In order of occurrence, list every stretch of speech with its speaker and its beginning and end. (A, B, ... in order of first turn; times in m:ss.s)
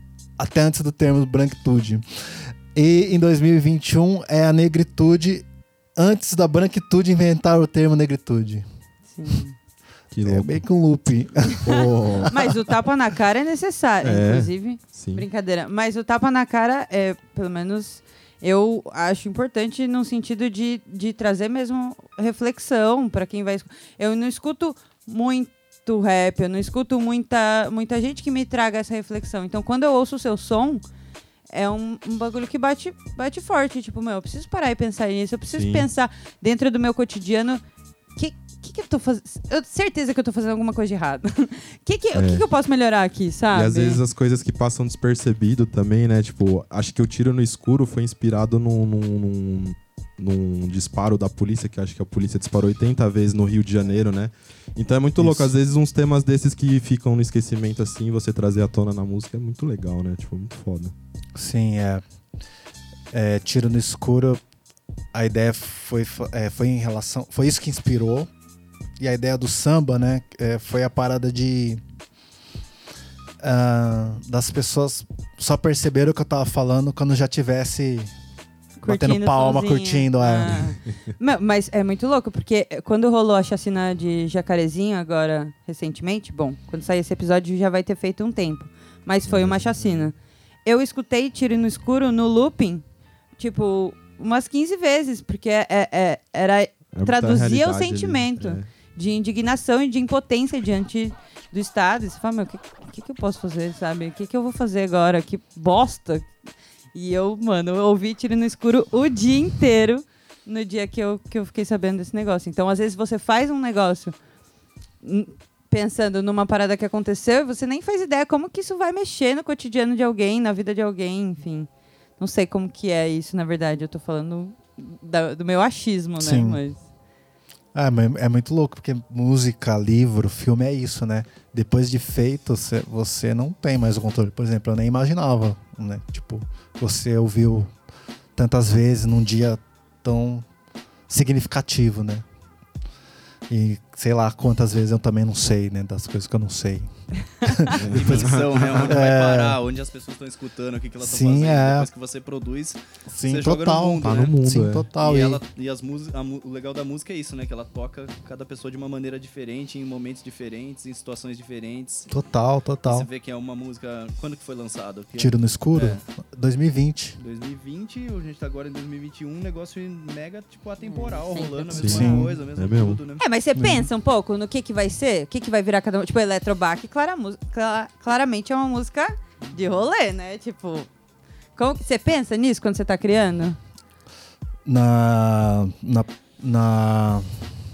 0:00.4-0:02.0 A
0:02.7-0:05.4 A
0:06.0-0:08.6 A
0:09.1-0:09.5 B
0:10.1-0:10.6 C
0:10.2-0:12.5 A
0:11.6-0:12.4 C
0:12.3-0:30.8 B
0:14.0-0:15.2 C
0:31.5-0:37.6 B
0:35.5-0:35.9 C
0:38.2-0:44.0 B
0:42.1-0:42.4 C
0:43.5-1:00.9 C
0:55.2-0:55.5 A
1:01.4-1:02.0 A
1:03.1-1:04.4 A
1:05.1-1:08.3 A
1:09.0-1:11.8 A
1:13.4-1:18.1 A
1:18.8-1:30.1 B
1:18.9-1:20.7 A
1:29.3-1:30.1 C
1:30.6-1:32.8 B
1:33.4-1:46.3 B
1:36.9-1:38.6 C
1:46.9-1:54.2 B
1:55.0-2:06.8 B
2:06.2-2:06.6 A
2:07.7-2:17.7 A
2:18.4-2:20.4 A
2:21.1-2:22.2 A
2:23.5-2:26.9 A
2:27.4-2:29.6 A
2:27.7-2:29.0 C
2:27.9-2:34.3 D
2:31.0-2:31.9 A
2:33.1-2:35.4 A
2:34.0-2:34.9 C
2:35.0-2:42.1 D
2:42.1-2:43.1 A
2:42.9-2:46.0 D
2:45.2-2:47.2 A
2:47.2-2:53.2 D
2:50.8-2:52.1 B
2:51.8-2:53.0 C
2:51.8-2:52.3 A
2:53.2-3:00.9 B
2:53.6-2:53.9 A
3:01.6-3:03.6 B
3:04.6-3:07.3 A